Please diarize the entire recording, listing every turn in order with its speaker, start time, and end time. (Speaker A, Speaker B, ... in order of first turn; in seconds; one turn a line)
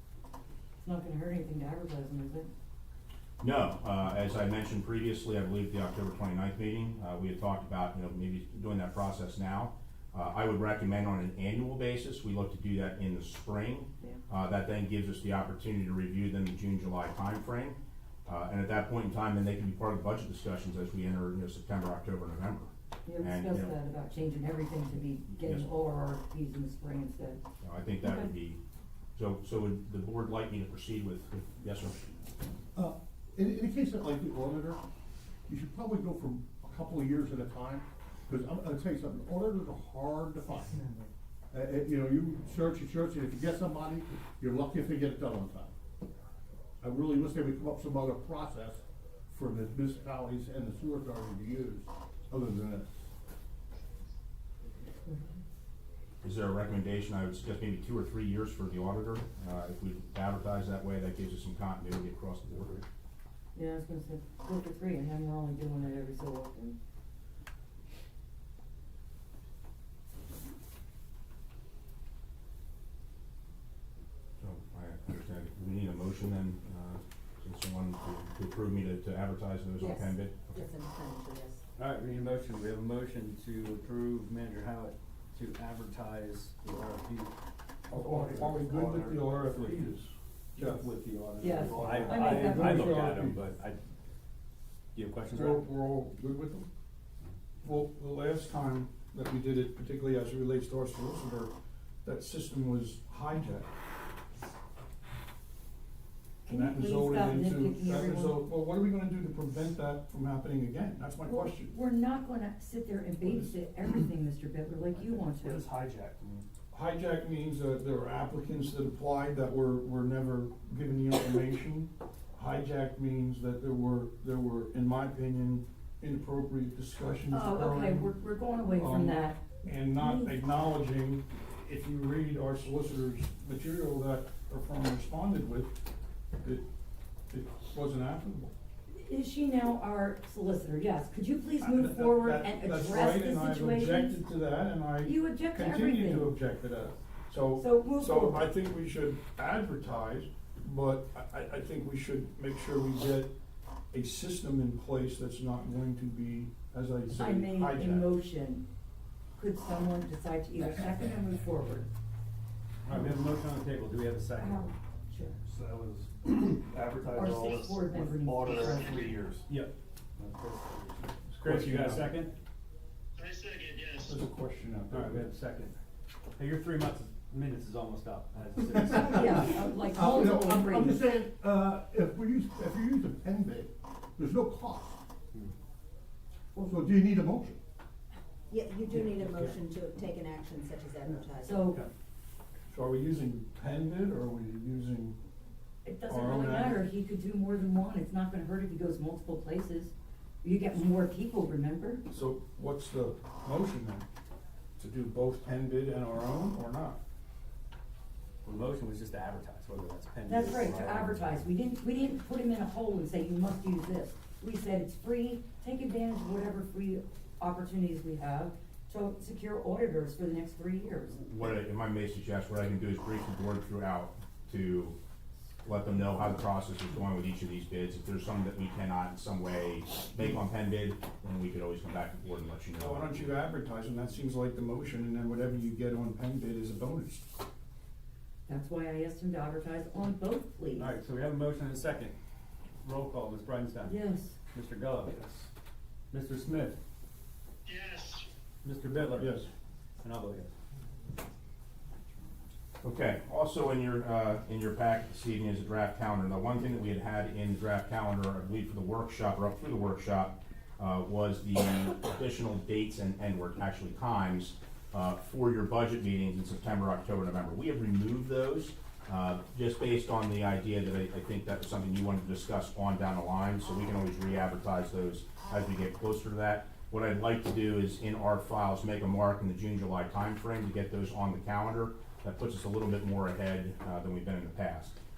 Speaker A: 0.8-2.5
Speaker B: 3.4-22.7
Speaker A: 23.1-27.4
Speaker B: 23.2-23.7
Speaker B: 25.4-25.6
Speaker B: 27.6-28.6
Speaker A: 28.0-28.3
Speaker B: 29.1-32.0
Speaker C: 32.7-34.8
Speaker C: 35.5-40.8
Speaker C: 41.5-45.7
Speaker C: 46.8-53.1
Speaker B: 56.2-62.8
Speaker A: 63.5-66.8
Speaker B: 74.4-80.6
Speaker D: 79.8-81.6
Speaker E: 81.8-87.3
Speaker F: 87.9-90.9
Speaker E: 87.9-88.8
Speaker E: 90.5-93.8
Speaker A: 91.4-92.8
Speaker F: 91.6-93.4
Speaker E: 94.9-95.7
Speaker F: 95.3-96.7
Speaker F: 97.6-103.7
Speaker A: 106.5-108.4
Speaker F: 106.5-111.8
Speaker A: 111.2-115.6
Speaker F: 113.2-113.6
Speaker F: 116.7-128.1
Speaker A: 127.3-130.3
Speaker F: 128.7-135.8
Speaker F: 137.3-138.5
Speaker A: 138.9-144.2
Speaker F: 141.6-153.3
Speaker A: 145.0-146.3
Speaker A: 147.5-148.5
Speaker F: 153.9-158.1
Speaker A: 157.1-158.6
Speaker A: 159.4-161.9
Speaker E: 162.8-164.8
Speaker A: 164.4-165.4
Speaker G: 165.5-169.4
Speaker A: 167.1-169.2
Speaker H: 168.7-169.1
Speaker E: 169.4-172.3
Speaker F: 171.3-172.1
Speaker H: 173.2-174.1
Speaker F: 174.0-175.2
Speaker E: 174.9-175.8
Speaker E: 176.4-179.5
Speaker A: 178.8-181.0
Speaker C: 179.0-185.0
Speaker C: 186.7-187.6
Speaker D: 188.5-191.7
Speaker A: 191.4-191.8
Speaker F: 192.7-195.2
Speaker A: 195.8-202.0
Speaker F: 196.1-196.8
Speaker F: 202.1-204.1
Speaker F: 204.8-207.0
Speaker E: 208.4-211.4
Speaker A: 210.2-221.3
Speaker B: 221.3-224.9
Speaker B: 225.6-233.3
Speaker F: 232.8-237.3
Speaker A: 238.5-240.9
Speaker E: 240.7-242.1
Speaker E: 242.8-244.0
Speaker A: 243.8-244.4
Speaker E: 244.5-245.5
Speaker E: 246.1-246.8
Speaker H: 247.7-248.3
Speaker E: 248.6-249.4
Speaker F: 249.1-249.5
Speaker E: 250.0-250.5
Speaker B: 252.8-285.0